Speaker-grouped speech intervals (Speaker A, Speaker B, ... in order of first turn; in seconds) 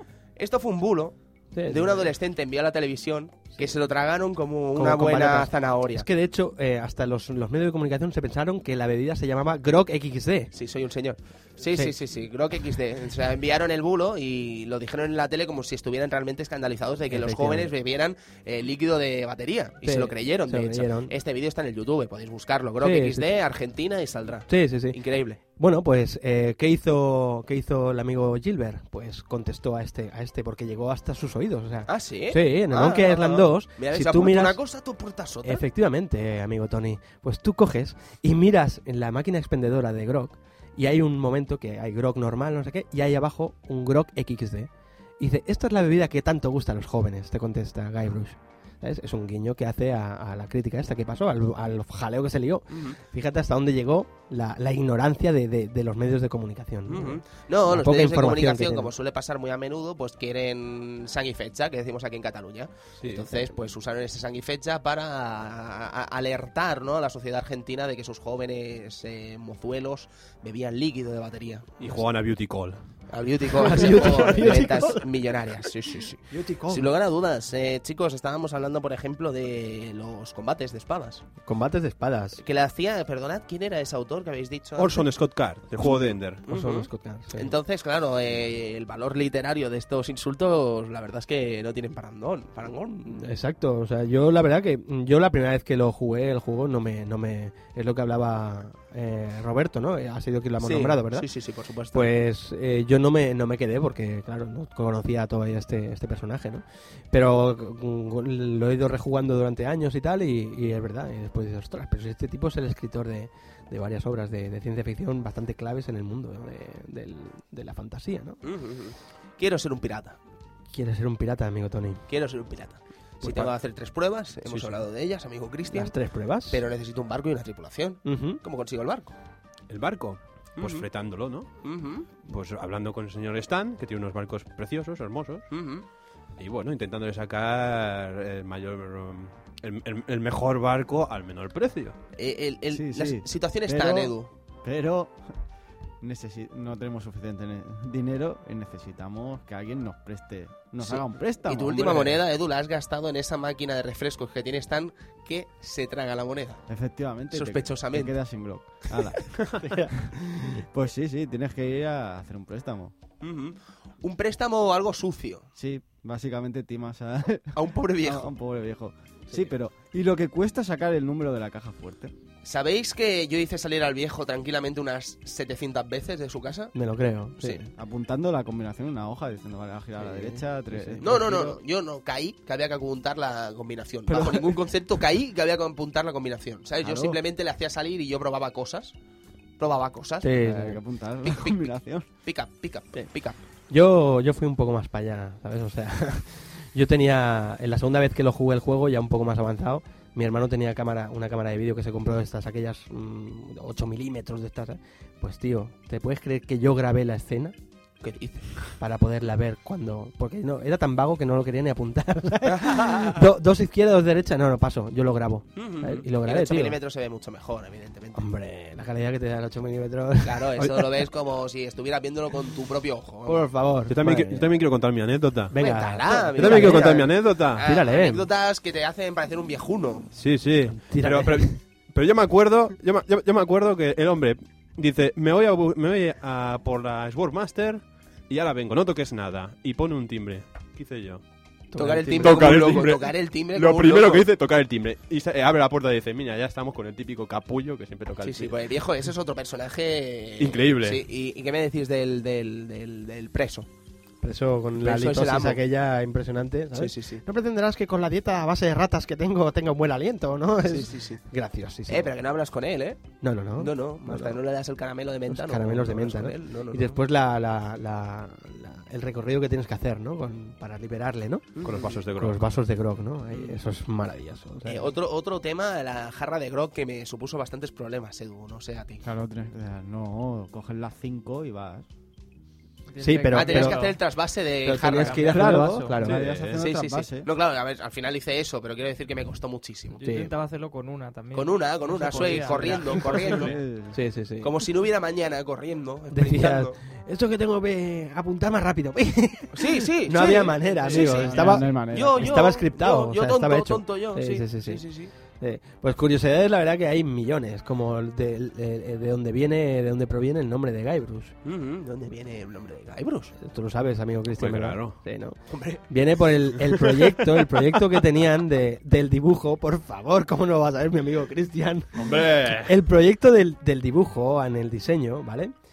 Speaker A: 0.4-6.1, 10.5-25.4, 31.9-35.6, 52.7-53.0, 56.9-72.0, 73.1-81.2, 82.4-85.0, 86.4-93.3, 100.6-102.2, 118.4-120.2, 122.1-125.9, 126.5-129.2, 130.6-130.9, 131.6-132.1, 135.5-135.8, 142.2-144.3, 150.8-156.7, 157.3-158.2, 163.2-165.5, 167.5-168.3, 172.4-176.8, 177.4-177.7, 180.0-180.3, 181.0-188.9, 189.6-190.3, 191.2-193.4, 208.0-208.6, 212.5-213.2, 215.6-218.3, 220.2-223.4, 225.6-230.1, 241.8-244.3, 248.2-253.7, 254.8-255.6, 256.7-257.2, 260.6-261.2, 261.9-266.9, 271.6-272.0, 273.3-273.6, 274.6-279.0, 283.3-285.6, 286.4-290.0, 291.3-293.6, 294.4-296.8, 299.5-305.1, 311.4-313.3, 315.5-315.9
Speaker B: 1.5-2.1, 4.7-10.5, 17.1-17.7, 19.8-21.1, 22.8-23.3, 24.5-34.6, 35.4-58.9, 73.6-75.1, 76.3-76.9, 81.5-82.4, 85.8-87.5, 93.1-101.3, 101.9-118.4, 120.7-122.0, 123.2-123.5, 125.7-126.6, 128.0-128.4, 159.6-160.6, 176.7-177.6, 180.2-181.3, 186.8-187.2, 190.2-190.8, 193.7-207.6, 208.8-216.8, 218.2-220.8, 223.3-224.5, 225.5-228.3, 230.7-231.6, 241.7-242.8, 254.2-262.1, 263.2-264.4, 265.3-271.6, 272.1-274.9, 283.0-283.9, 284.6-286.2, 290.0-290.3, 293.9-294.5, 296.1-304.8, 305.4-311.4, 313.4-315.4, 315.9-325.5
Speaker C: 71.8-72.8, 84.8-86.4, 124.5-124.8, 129.7-131.7, 132.2-135.5, 136.4-142.0, 223.9-225.6, 226.3-227.7, 230.1-241.2, 242.2-248.6, 250.4-251.0, 271.6-272.4, 286.0-286.6, 314.4-315.0, 322.0-322.8
Speaker D: 142.7-145.3, 146.0-152.2, 156.7-159.4, 160.0-162.9, 165.6-172.1, 177.8-181.6, 184.1-184.4, 190.4-192.1, 279.0-281.9, 285.3-287.3, 292.5-294.0, 301.2-302.4
Speaker E: 282.9-284.0, 284.9-286.0, 290.0-293.5, 300.9-301.2